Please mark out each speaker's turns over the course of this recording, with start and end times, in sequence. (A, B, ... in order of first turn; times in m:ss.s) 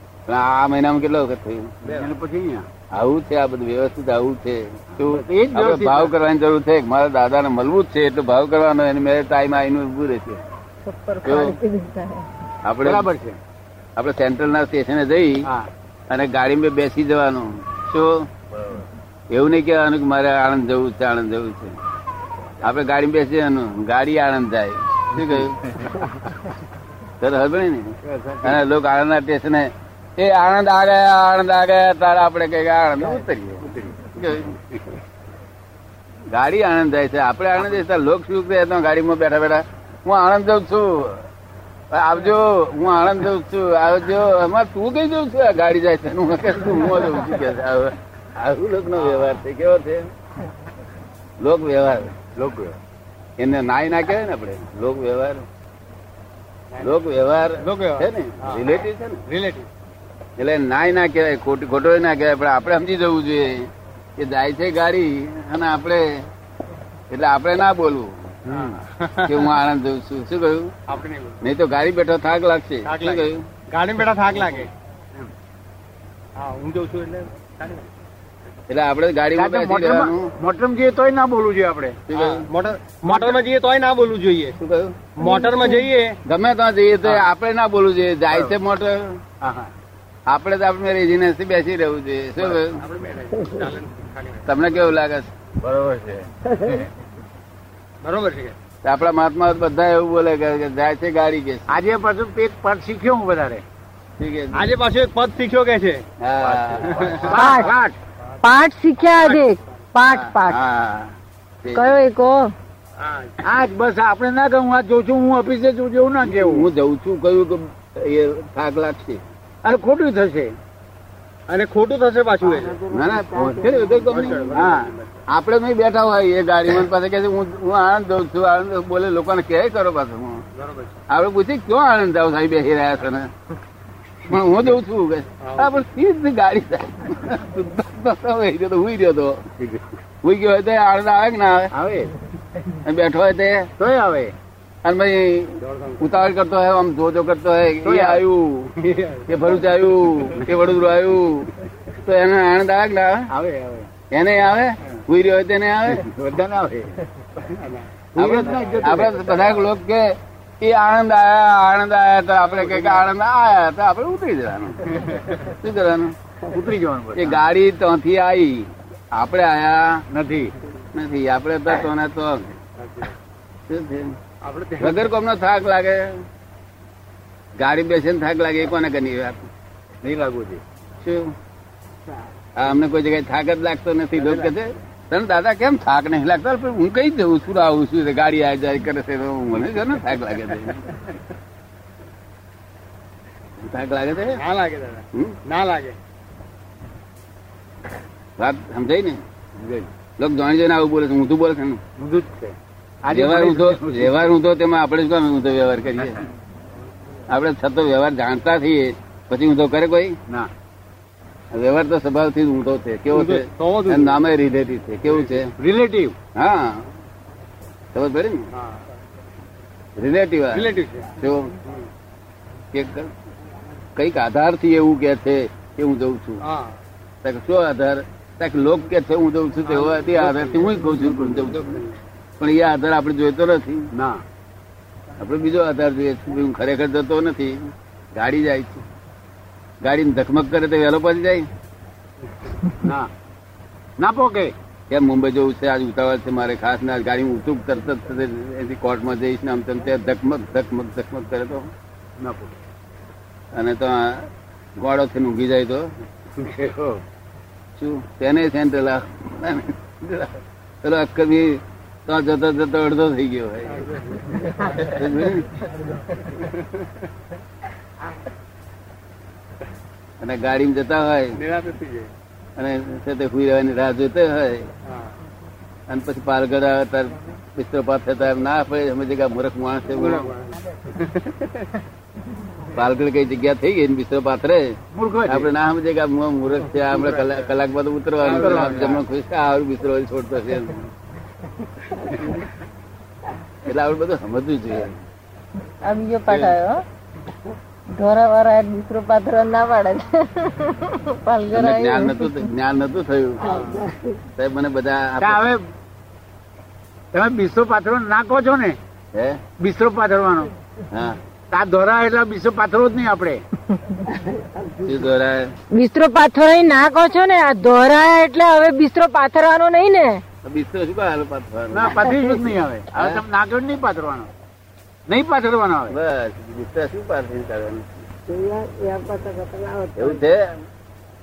0:00.3-0:01.7 A
0:01.8-0:02.1 B
0:01.8-0:02.7 C
0:02.9-0:10.4 A
0:05.0-0:06.1 C
0:10.8-0:12.3 D
0:11.2-0:11.6 A
0:12.6-0:13.1 A
0:12.8-0:13.4 C
0:14.0-0:15.5 A
0:16.1-0:18.3 A
0:19.3-0:21.8 A
0:22.6-0:25.6 A
0:27.2-0:34.6 A
0:28.0-0:28.6 C
0:33.0-0:34.0 C
0:36.3-0:41.3 A
0:41.9-0:50.1 A
0:49.0-0:49.4 B
0:51.4-0:52.2 A
0:52.4-0:52.8 C
0:53.4-0:55.5 A
0:56.7-0:57.0 B
0:56.8-0:59.2 A
0:57.6-0:59.7 B
1:00.4-1:06.3 A
1:07.1-1:08.2 A
1:08.5-1:08.8 C
1:08.5-1:09.5 B
1:09.2-1:10.9 A
1:10.9-1:11.4 B
1:11.4-1:13.5 A
1:12.8-1:14.7 B
1:16.4-1:17.9 B
1:18.7-1:20.3 A
1:19.4-1:22.0 C
1:22.1-1:22.5 A
1:22.1-1:24.6 B
1:24.6-1:25.0 A
1:25.2-1:26.2 B
1:25.2-1:25.9 D
1:26.2-1:29.2 A
1:29.4-1:29.7 C
1:30.3-1:32.8 A
1:32.4-1:34.7 B
1:34.4-1:35.3 A
1:35.6-1:36.2 C
1:36.4-1:36.9 E
1:38.0-1:38.6 B
1:38.8-1:41.8 A
1:41.7-1:43.6 C
1:44.2-1:44.7 A
1:44.5-1:46.0 B
1:46.2-1:47.5 A
1:46.4-1:48.0 C
1:47.3-1:47.7 D
1:48.4-1:50.6 D
1:49.1-1:49.4 B
1:50.0-1:52.0 A
1:51.7-1:52.5 D
1:53.0-1:53.4 B
1:53.4-1:56.7 C
1:56.3-1:59.2 A
1:59.6-2:00.6 C
2:01.5-2:02.8 B
2:02.4-2:04.8 E
2:02.9-2:10.5 A
2:03.9-2:05.1 B
2:04.5-2:04.9 C
2:10.6-2:11.0 B
2:11.1-2:13.3 A
2:14.3-2:19.5 A
2:15.4-2:15.8 B
2:19.6-2:19.9 C
2:20.2-2:21.7 A
2:21.7-2:22.1 C
2:22.8-2:23.7 A
2:23.8-2:24.3 C
2:24.8-2:33.3 A
2:25.6-2:26.2 B
2:27.8-2:28.2 C
2:28.8-2:29.4 B
2:33.3-2:33.9 C
2:34.1-2:36.1 A
2:35.9-2:37.0 C
2:37.4-2:37.8 B
2:38.2-2:39.6 C
2:38.2-2:46.2 A
2:38.4-2:38.9 B
2:42.4-2:43.1 B
2:46.5-2:47.4 C
2:47.2-2:50.0 A
2:50.1-2:50.5 C
2:50.9-2:52.6 A
2:52.8-2:53.1 B
2:53.7-2:54.2 A
2:54.4-2:55.1 B
2:54.8-2:56.3 A
2:57.6-2:59.5 A
3:00.0-3:00.6 C
3:01.0-3:01.4 A
3:02.6-3:11.0 A
3:13.6-3:14.4 A
3:14.3-3:16.0 B
3:18.4-3:19.2 A
3:19.6-3:19.9 C
3:20.2-3:21.8 A
3:22.0-3:24.3 C
3:23.1-3:26.2 A
3:27.3-3:30.2 A
3:31.5-3:35.5 A
3:33.1-3:34.2 B
3:35.6-3:36.2 C
3:36.4-3:36.9 A
3:37.9-3:38.5 A
3:38.5-3:38.8 B
3:40.0-3:41.6 A
3:40.5-3:41.1 B
3:42.7-3:43.1 A
3:44.0-3:46.4 A
3:46.4-3:46.8 B
3:47.2-3:51.8 A
3:49.7-3:52.0 B
3:50.9-3:51.6 C
3:52.4-3:53.9 A
3:53.9-3:54.2 C
3:55.2-3:58.8 A
3:59.8-4:01.5 A
4:02.8-4:03.1 C
4:04.0-4:04.6 C
4:04.9-4:11.7 A
4:12.2-4:12.6 C
4:13.5-4:15.9 A
4:16.4-4:17.0 C
4:17.8-4:23.9 A
4:23.7-4:24.9 B
4:24.7-4:25.5 A
4:30.2-4:31.4 A
4:31.4-4:32.1 B
4:32.6-4:34.7 A
4:34.9-4:35.1 B
4:35.9-4:40.3 A
4:40.0-4:41.6 B
4:42.7-4:50.9 A
4:44.9-4:45.5 C
4:46.9-4:47.5 B
4:48.2-4:49.0 B
4:48.2-4:49.0 C
4:53.6-4:55.0 A
4:55.8-4:56.8 D
4:56.3-4:56.6 A
4:57.9-5:02.5 D
5:01.5-5:03.6 A
5:03.4-5:03.8 B
5:03.4-5:04.2 E
5:04.4-5:05.4 A
5:05.2-5:05.6 C
5:07.1-5:08.8 C
5:09.1-5:09.4 A
5:09.6-5:10.5 C
5:10.9-5:11.2 A
5:11.5-5:13.4 C
5:14.2-5:15.0 E
5:14.8-5:15.6 A
5:15.7-5:20.2 D
5:20.4-5:22.1 A
5:21.7-5:24.3 C
5:22.0-5:22.4 D
5:22.9-5:23.2 A
5:25.1-5:26.0 C
5:25.9-5:27.9 A
5:28.3-5:30.4 E
5:30.0-5:30.6 A